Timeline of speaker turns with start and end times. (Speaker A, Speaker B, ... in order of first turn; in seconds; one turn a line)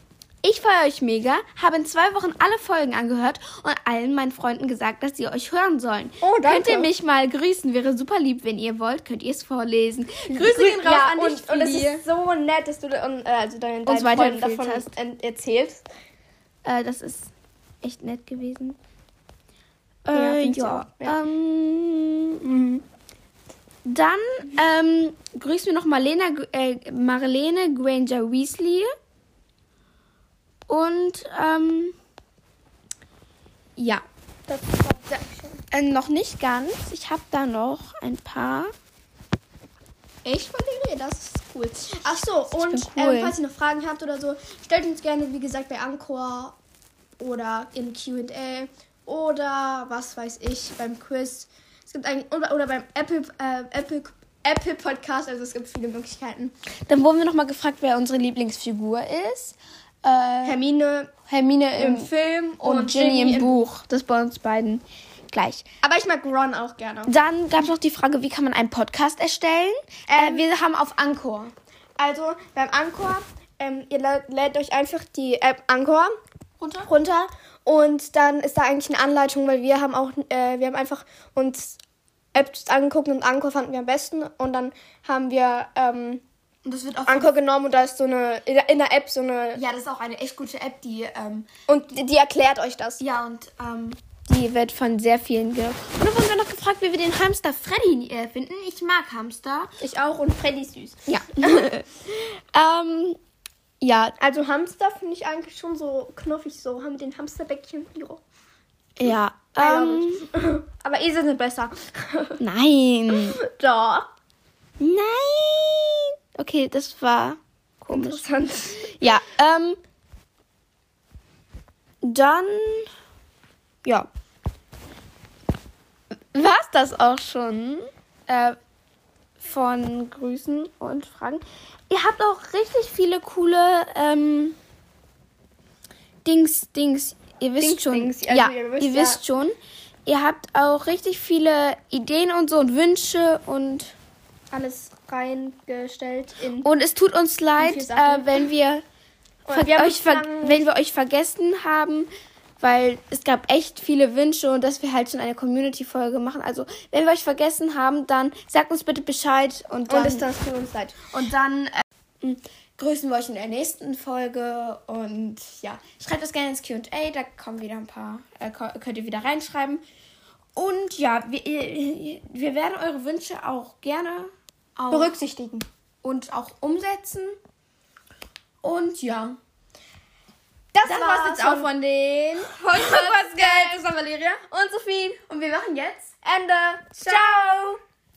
Speaker A: 0.4-12.0
Speaker B: 6.2-6.9
Speaker B: 10.3-15.8
Speaker A: 13.8-14.9
Speaker A: 16.6-17.3
Speaker A: 17.8-18.8
Speaker A: 20.0-22.4
Speaker B: 20.1-21.2
Speaker B: 22.4-22.8
Speaker A: 23.8-28.9
Speaker A: 30.7-31.9
Speaker A: 33.8-34.0
Speaker B: 34.5-35.6
Speaker A: 35.7-38.7
Speaker B: 40.2-46.5
Speaker A: 42.5-43.4
Speaker B: 47.2-56.5
Speaker A: 56.9-60.6
Speaker B: 60.4-61.1
Speaker A: 61.3-62.1
Speaker B: 61.7-63.6
Speaker A: 62.6-65.6
Speaker B: 65.8-67.1
Speaker A: 67.0-71.5
Speaker B: 70.1-70.4
Speaker B: 72.0-76.1
Speaker A: 76.6-76.9
Speaker B: 76.8-81.8
Speaker B: 82.3-86.2
Speaker A: 86.6-87.3
Speaker B: 87.1-89.6
Speaker A: 89.5-91.5
Speaker B: 91.7-93.0
Speaker A: 93.0-99.7
Speaker B: 99.8-101.0
Speaker A: 101.1-103.2
Speaker A: 103.8-104.1
Speaker B: 104.2-108.2
Speaker A: 109.0-110.3
Speaker B: 109.1-112.4
Speaker A: 112.4-113.4
Speaker B: 113.3-114.1
Speaker A: 114.8-118.2
Speaker B: 117.9-118.9
Speaker A: 118.9-119.8
Speaker A: 122.0-122.9
Speaker A: 126.3-128.6
Speaker A: 129.4-134.6
Speaker A: 136.2-143.9
Speaker B: 137.6-139.2
Speaker B: 144.5-146.7
Speaker A: 146.6-148.8
Speaker B: 147.6-148.3
Speaker B: 149.5-150.6
Speaker A: 149.5-152.1
Speaker A: 152.6-160.3
Speaker B: 159.9-160.9
Speaker A: 161.1-169.8
Speaker A: 170.6-175.1
Speaker B: 174.9-175.7
Speaker A: 176.0-177.3
Speaker A: 178.6-179.4
Speaker B: 180.7-181.7
Speaker A: 180.8-184.4
Speaker B: 182.6-183.8
Speaker B: 184.5-185.2
Speaker A: 185.3-186.1
Speaker B: 186.2-187.8
Speaker A: 187.0-187.7